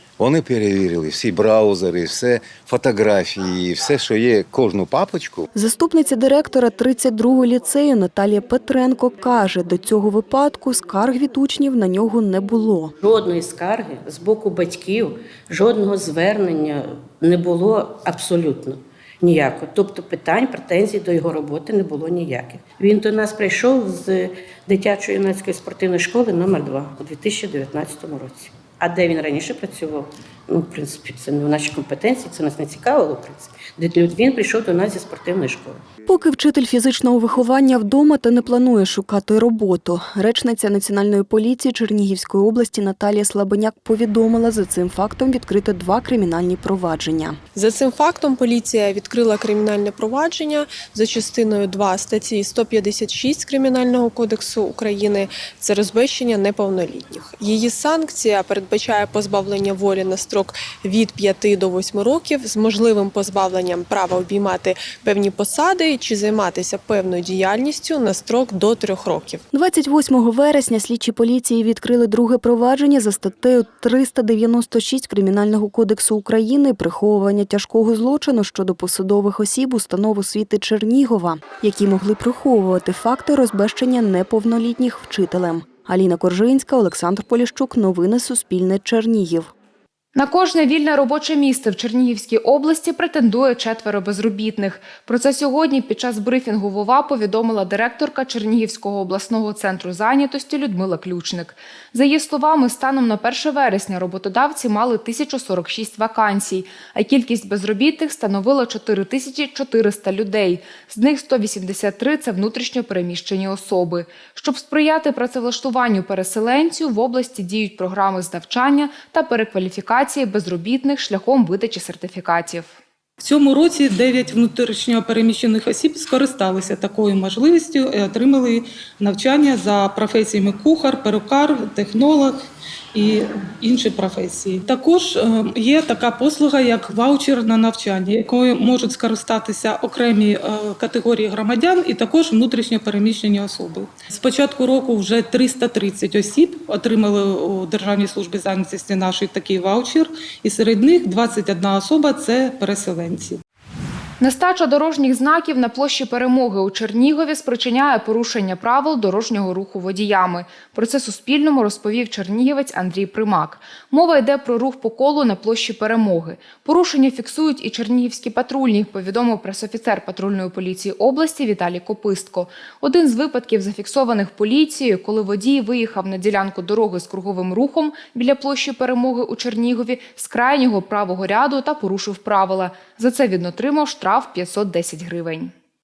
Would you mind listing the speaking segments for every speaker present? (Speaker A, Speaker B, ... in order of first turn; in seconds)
Speaker A: 0.2-5.5
Speaker B: 5.5-12.9, 36.1-47.4, 69.5-89.5
Speaker C: 13.0-35.8
Speaker D: 47.6-69.4
Speaker E: 90.1-122.8, 154.2-185.5
Speaker F: 123.2-132.3, 132.9-153.4